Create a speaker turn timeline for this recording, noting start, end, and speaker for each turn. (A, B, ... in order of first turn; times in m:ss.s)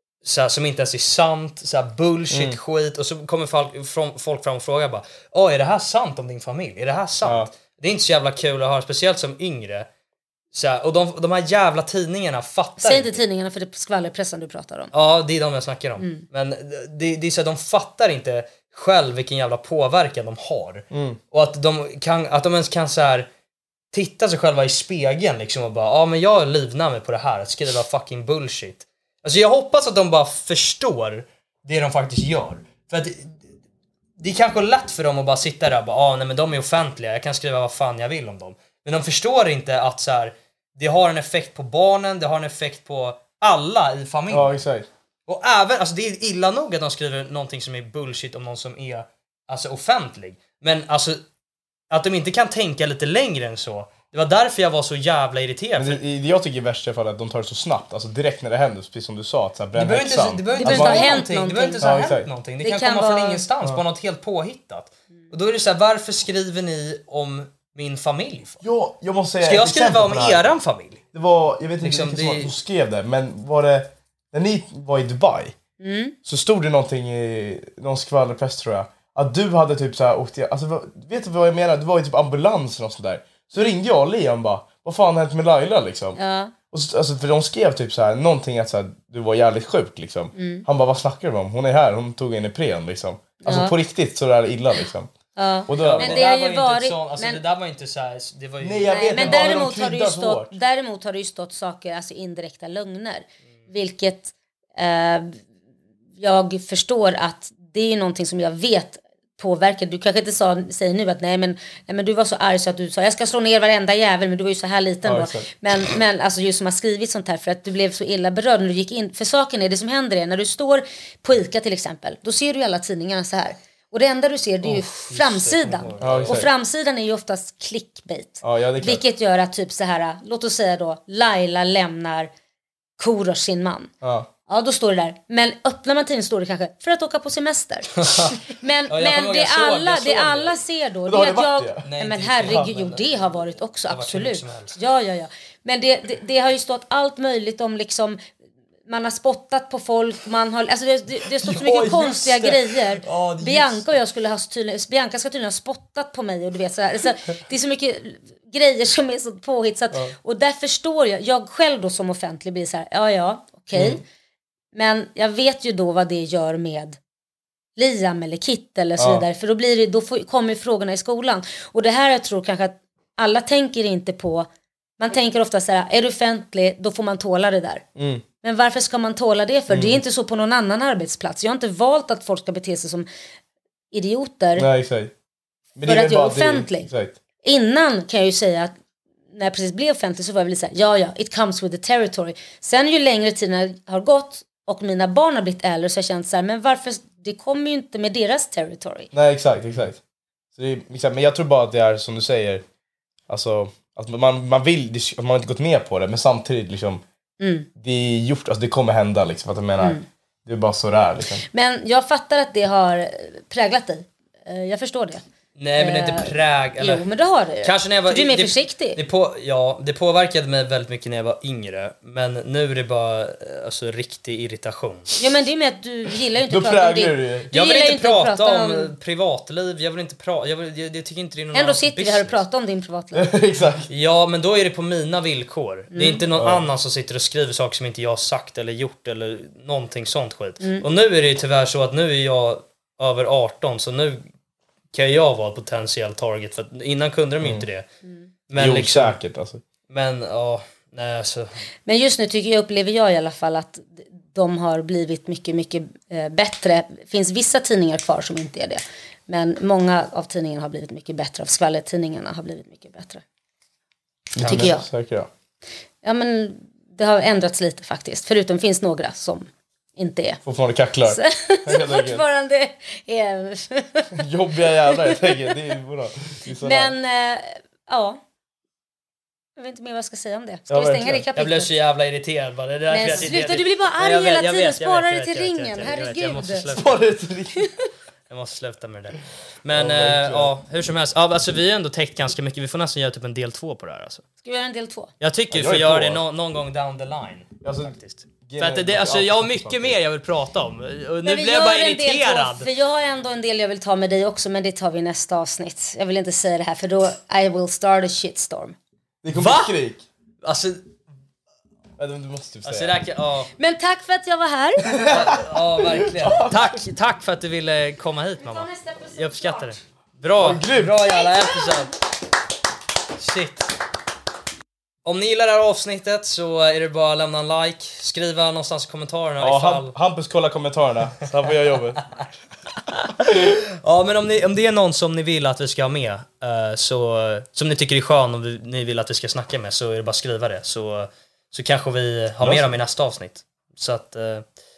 0:00.2-0:09.9 A
0:02.3-0:02.6 B
0:07.2-0:07.5 B
0:10.5-0:13.2 A
0:12.8-0:14.9 C
0:14.9-0:23.3 A
0:16.0-0:16.2 C
0:20.9-0:21.2 B
0:23.9-0:33.4 A
0:34.2-0:44.6 A
0:44.3-0:44.9 B
0:45.3-0:51.2 A
0:51.9-0:56.0 A
0:55.8-1:01.2 B
0:59.7-1:08.6 A
1:00.5-1:02.1 C
1:01.8-1:02.3 B
1:02.6-1:03.4 C
1:08.6-1:10.5 B
1:09.4-1:11.0 A
1:11.1-1:15.6 B
1:11.8-1:12.5 A
1:15.8-1:16.2 C
1:16.2-1:26.2 B
1:26.2-1:26.5 C
1:26.7-1:35.1 B
1:30.4-1:30.6 C
1:33.4-1:33.8 C
1:35.4-1:37.4 C
1:35.7-1:36.3 B
1:35.8-1:39.6 A
1:38.6-1:40.5 B
1:38.9-1:45.4 C
1:46.2-2:12.3 C
1:55.0-1:55.5 B
2:04.6-2:06.5 A
2:06.0-2:06.5 B
2:08.4-2:09.0 B
2:13.0-2:13.9 C
2:14.0-2:14.3 B
2:14.5-2:28.2 C
2:18.0-2:20.5 A
2:21.1-2:21.9 B
2:21.8-2:23.2 A
2:23.9-2:24.8 A
2:28.9-2:44.0 C
2:31.6-2:32.5 B
2:31.6-2:32.3 A
2:33.0-2:33.8 A
2:43.8-2:44.0 B
2:44.7-2:47.0 C
2:47.8-2:54.5 C
2:49.0-2:49.2 B
2:55.0-2:57.8 C
2:58.0-2:58.2 B
2:58.4-3:03.1 C
2:59.7-3:00.0 B
3:03.9-3:04.7 C
3:04.6-3:05.1 B
3:05.8-3:07.2 B
3:05.8-3:06.9 C
3:07.4-3:08.7 C
3:09.3-3:19.1 C
3:19.1-3:20.0 B
3:20.5-3:22.6 B
3:23.3-3:27.0 B
3:27.4-3:27.7 C
3:27.8-3:31.4 B
3:31.5-3:35.2 C
3:35.6-3:37.1 A
3:35.8-3:39.0 C
3:37.6-3:45.1 A
3:45.2-3:48.9 C
3:46.5-3:47.5 B
3:47.5-3:52.4 A
3:51.5-3:53.3 C
3:53.1-3:53.9 B
3:53.9-4:04.2 A
3:55.9-3:56.2 C
3:56.4-3:56.6 B
4:04.9-4:07.8 A
4:08.5-4:09.2 A
4:08.6-4:09.6 B
4:09.9-4:11.5 A
4:11.9-4:23.2 C
4:24.4-4:25.3 B
4:24.4-4:24.7 A
4:24.4-4:24.9 C
4:26.0-4:30.4 C
4:30.4-4:32.2 B
4:31.1-4:34.2 C
4:34.2-4:37.0 B
4:34.9-4:35.5 C
4:36.6-4:38.2 C
4:39.6-4:41.7 C
4:40.7-4:41.3 B
4:41.4-4:46.9 A
4:42.9-4:46.7 C
4:46.7-4:47.7 B
4:48.3-4:54.2 A
4:49.7-4:50.6 B
4:54.4-4:55.1 C
4:55.2-5:02.7 A
4:55.5-4:56.2 B
4:57.6-5:00.0 B
5:01.2-5:08.8 C
5:09.2-5:10.0 B
5:09.3-5:09.8 A
5:10.4-5:10.8 A
5:12.0-5:13.0 B
5:12.6-5:13.5 A
5:13.6-5:15.0 C
5:14.8-5:16.8 B
5:15.1-5:21.9 A
5:18.4-5:19.8 C
5:20.4-5:21.0 B
5:21.2-5:21.8 C
5:23.2-5:23.7 A
5:25.0-5:30.0 A
5:29.4-5:32.0 B
5:32.9-5:44.4 A
5:42.4-5:42.7 B